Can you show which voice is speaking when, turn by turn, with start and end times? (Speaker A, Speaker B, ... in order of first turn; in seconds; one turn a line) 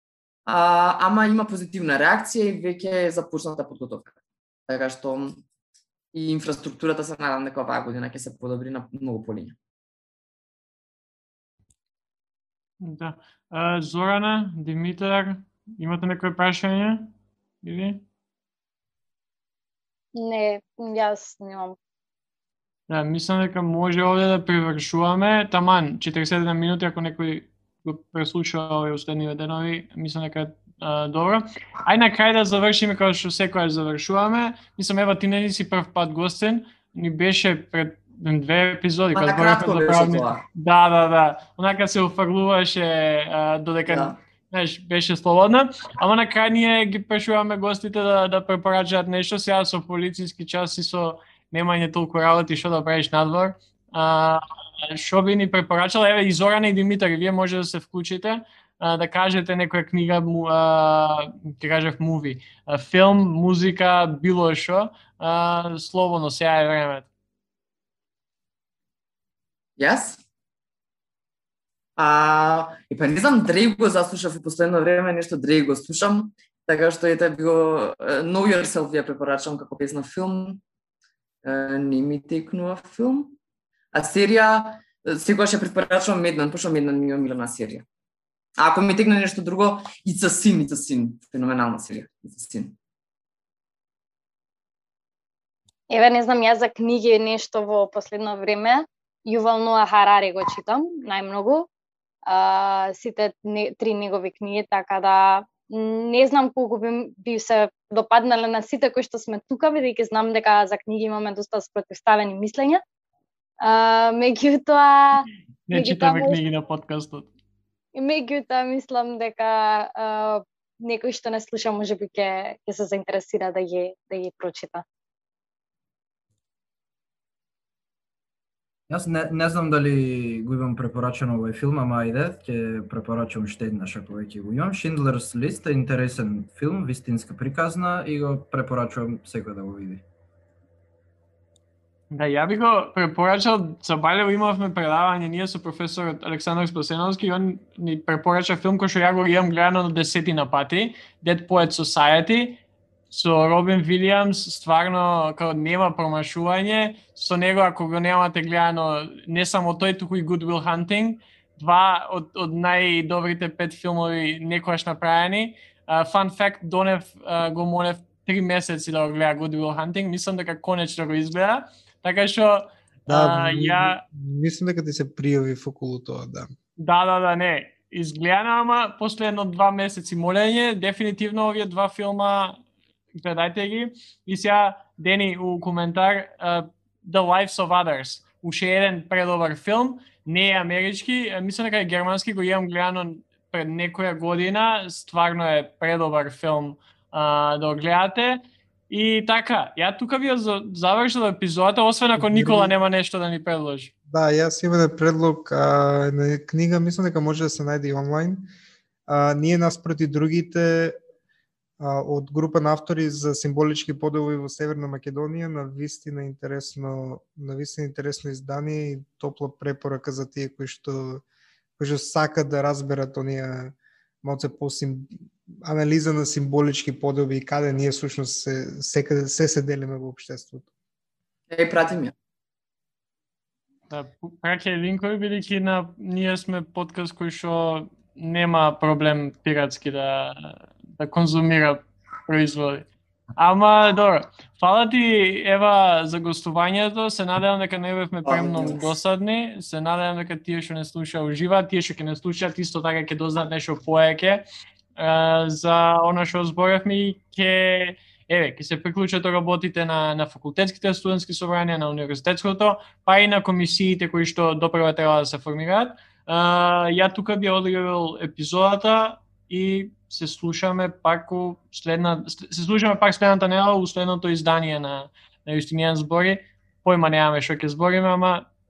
Speaker A: 0.5-4.1
Speaker A: 4.7-5.4
Speaker A: 6.1-9.6
Speaker B: 12.8-17.1
Speaker B: 17.6-18.0
Speaker C: 20.1-21.8
Speaker B: 22.9-67.1
Speaker A: 39.1-40.4
Speaker A: 43.9-44.1
Speaker A: 69.8-70.2
Speaker A: 72.0-80.6
Speaker A: 81.4-83.3
Speaker A: 83.9-87.8
Speaker A: 88.6-92.7
Speaker C: 95.9-101.7
Speaker C: 102.2-112.8
Speaker C: 113.6-116.4
Speaker B: 115.7-117.3
Speaker C: 117.9-124.8
Speaker D: 128.9-140.0
Speaker B: 142.1-174.0
Speaker E: 173.1-176.5
Speaker B: 176.8-182.6
Speaker B: 183.2-203.9
Speaker E: 202.2-202.7
Speaker E: 204.1-208.5
Speaker E: 209.1-211.0
Speaker E: 211.8-221.2
Speaker E: 221.8-230.7
Speaker A: 231.5-232.1
Speaker B: 233.9-242.8
Speaker B: 243.4-254.4
Speaker A: 248.2-248.9
Speaker B: 254.9-278.5